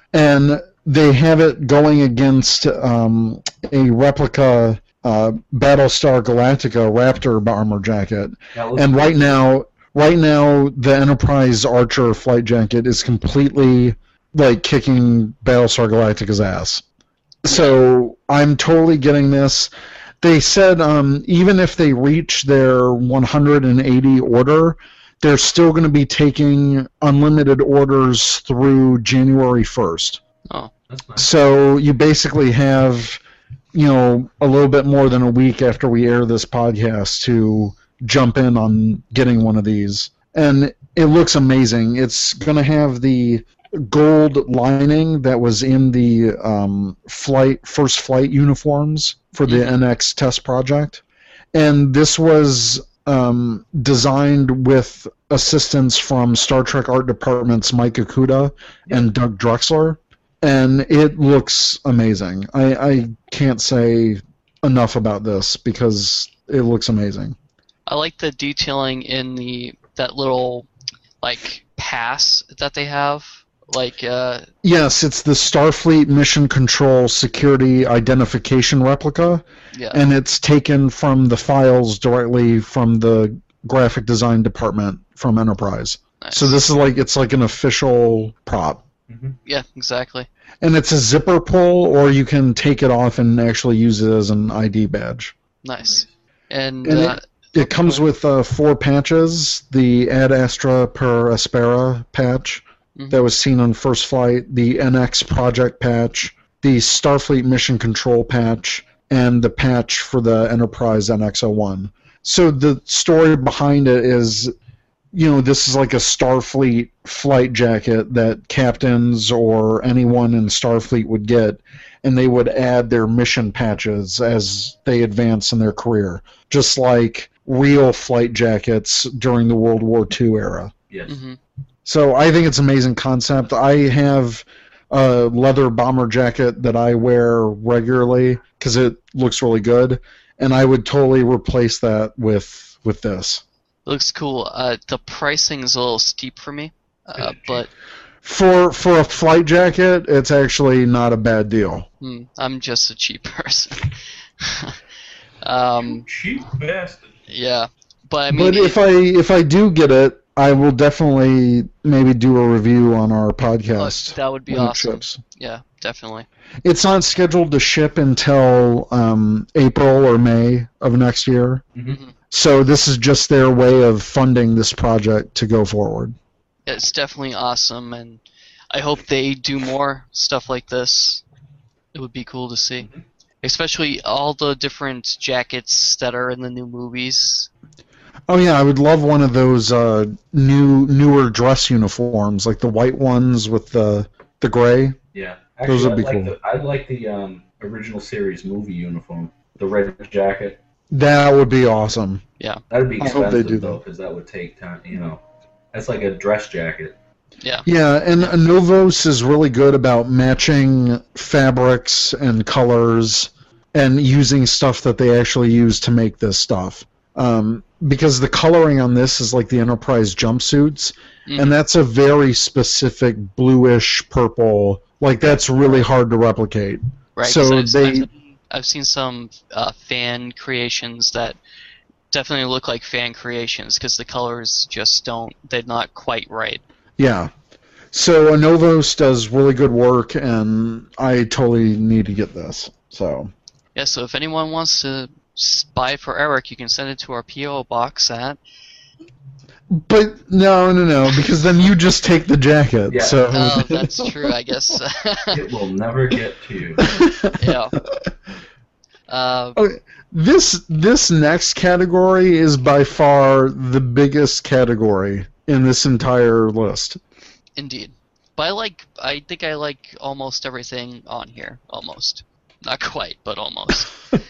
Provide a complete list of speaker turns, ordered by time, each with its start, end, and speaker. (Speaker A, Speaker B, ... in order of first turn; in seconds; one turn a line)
Speaker A: 0.1-16.8
Speaker B: 8.5-9.4
Speaker A: 17.4-19.7
Speaker C: 17.5-17.7
Speaker A: 20.2-30.2
Speaker B: 30.9-31.3
Speaker A: 31.2-33.2
Speaker A: 33.7-51.0
Speaker C: 49.5-49.8
Speaker A: 51.5-67.3
Speaker C: 67.9-70.7
Speaker C: 71.2-74.5
Speaker A: 74.6-88.8
Speaker C: 79.7-80.0
Speaker C: 86.2-86.6
Speaker B: 89.1-89.4
Speaker C: 89.5-90.3
Speaker A: 90.6-95.3
Speaker C: 95.6-98.0
Speaker B: 95.8-96.1
Speaker A: 96.8-114.5
Speaker C: 103.0-103.2
Speaker A: 115.1-130.7
Speaker B: 130.9-131.2
Speaker C: 131.1-131.4
Speaker A: 131.8-143.4
Speaker C: 143.9-147.7
Speaker B: 147.2-147.6
Speaker A: 148.2-151.9
Speaker C: 152.0-154.8
Speaker C: 155.4-156.0
Speaker B: 155.8-157.1
Speaker C: 157.3-158.8
Speaker A: 158.3-165.2
Speaker C: 163.8-166.3
Speaker A: 166.6-171.6
Speaker C: 171.9-172.1
Speaker A: 172.3-176.1
Speaker C: 176.7-178.2
Speaker C: 178.7-181.2
Speaker C: 181.9-182.9
Speaker B: 182.8-183.0
Speaker C: 183.4-187.5
Speaker A: 188.3-194.9
Speaker B: 195.1-200.6
Speaker A: 195.7-196.3
Speaker A: 200.9-202.2
Speaker B: 202.7-206.9
Speaker A: 203.0-203.8
Speaker C: 207.4-207.7
Speaker A: 207.7-228.1
Speaker C: 221.3-221.6
Speaker C: 227.2-231.4
Speaker C: 232.1-236.6
Speaker A: 237.0-237.3
Speaker A: 237.9-243.3
Speaker C: 243.7-248.4
Speaker A: 249.7-254.3
Speaker B: 252.9-253.2
Speaker C: 253.3-255.4
Speaker B: 255.3-256.9
Speaker A: 256.8-258.0
Speaker C: 257.4-257.8
Speaker C: 259.1-259.6
Speaker A: 259.6-267.0
Speaker C: 267.6-273.9